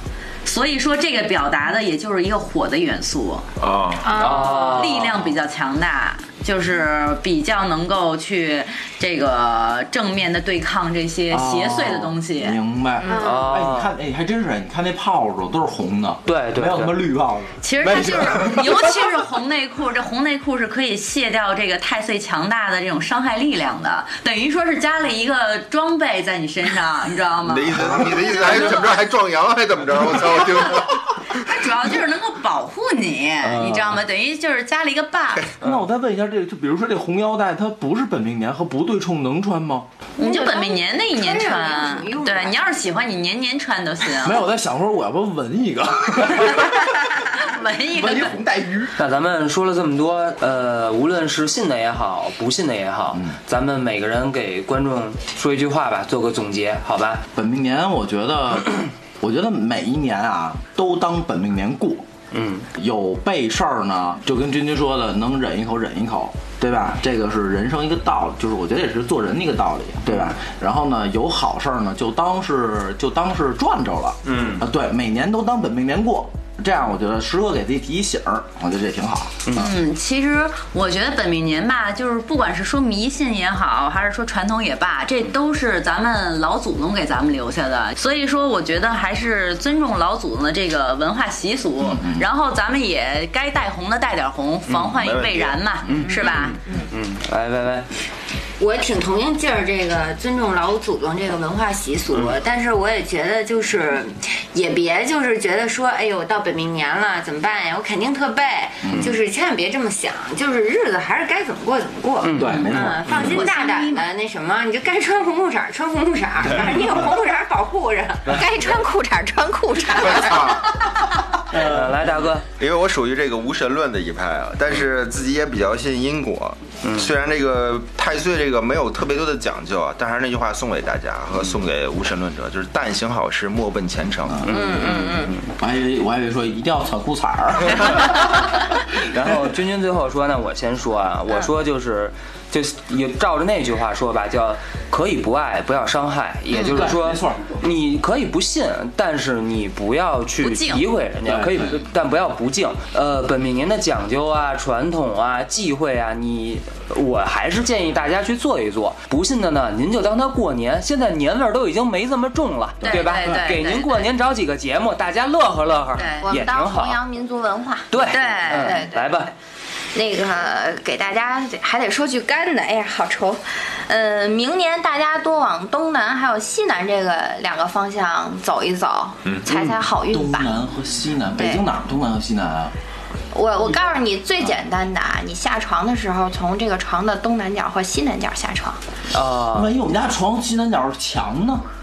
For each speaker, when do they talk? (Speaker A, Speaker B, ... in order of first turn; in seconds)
Speaker A: 0.5-3.5, 4.7-12.6, 17.6-29.0, 30.8-35.5, 40.2-44.4, 47.3-48.4, 79.6-96.6, 112.4-114.1, 150.4-150.9, 162.8-164.1, 166.0-166.3, 168.1-168.8
Speaker B: 3.6-4.2, 27.4-31.2, 74.2-74.7, 94.9-95.7, 120.0-120.8, 122.6-134.5
Speaker C: 4.0-4.9, 13.0-13.6, 40.2-42.6, 98.6-118.4
Speaker D: 4.2-5.4, 13.2-13.9, 16.3-17.0, 18.1-18.5, 33.4-34.0, 49.0-57.2, 62.3-62.7, 94.7-95.0, 95.8-97.9, 112.2-112.6, 121.5-122.5, 126.8-127.1, 134.4-135.4, 139.2-167.0, 167.9-169.3, 179.5-179.8, 189.1-189.7
Speaker E: 11.3-18.9, 35.6-39.9, 44.2-47.4, 47.9-49.0, 53.1-53.4, 57.3-62.1, 62.8-79.7, 91.8-92.2, 95.8-96.1, 108.8-109.2, 112.4-113.2, 121.5-122.3, 134.3-134.9, 135.6-139.6, 146.6-147.5, 151.2-151.8, 180.1-182.7, 189.5-191.6
Speaker F: 118.3-120.6, 134.5-135.3, 166.2-169.3, 169.9-180.5, 181.4-181.6, 183.3-188.8